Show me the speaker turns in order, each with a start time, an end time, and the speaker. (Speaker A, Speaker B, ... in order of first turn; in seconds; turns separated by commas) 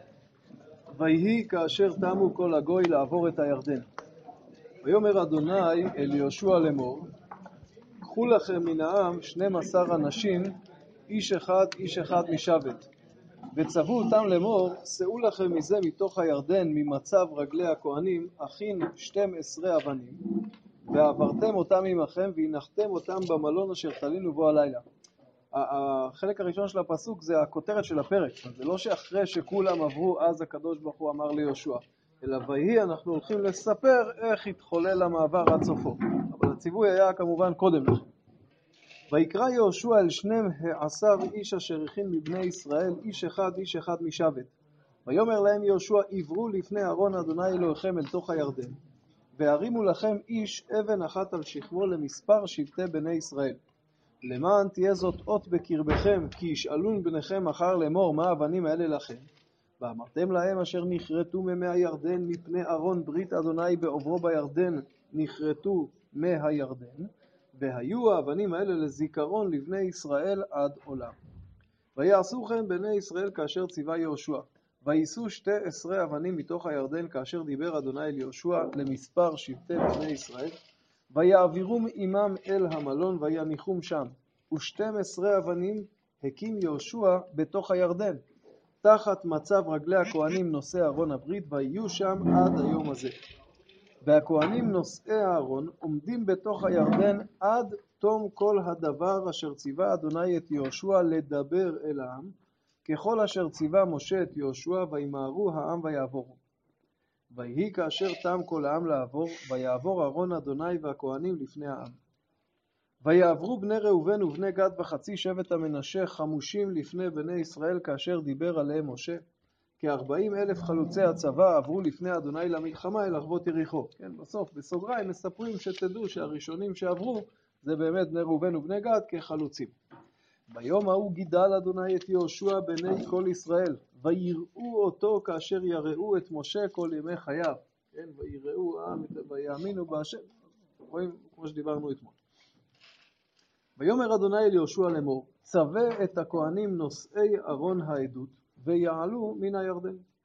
Speaker A: 0.9-3.8, Speaker A: 4.8-7.1, Speaker A: 8.0-10.5, Speaker A: 11.1-12.9, Speaker A: 13.5-20.2, Speaker A: 20.9-24.8, Speaker A: 25.5-38.0, Speaker A: 39.1-44.5, Speaker A: 45.0-48.8, Speaker A: 49.4-53.6, Speaker A: 54.2-59.3, Speaker A: 59.8-71.2, Speaker A: 72.0-80.5, Speaker A: 81.1-88.2, Speaker A: 88.8-93.1, Speaker A: 94.0-106.4, Speaker A: 107.3-112.0, Speaker A: 113.0-119.2, Speaker A: 119.8-129.7, Speaker A: 130.5-140.3, Speaker A: 140.8-142.2, Speaker A: 143.8-150.0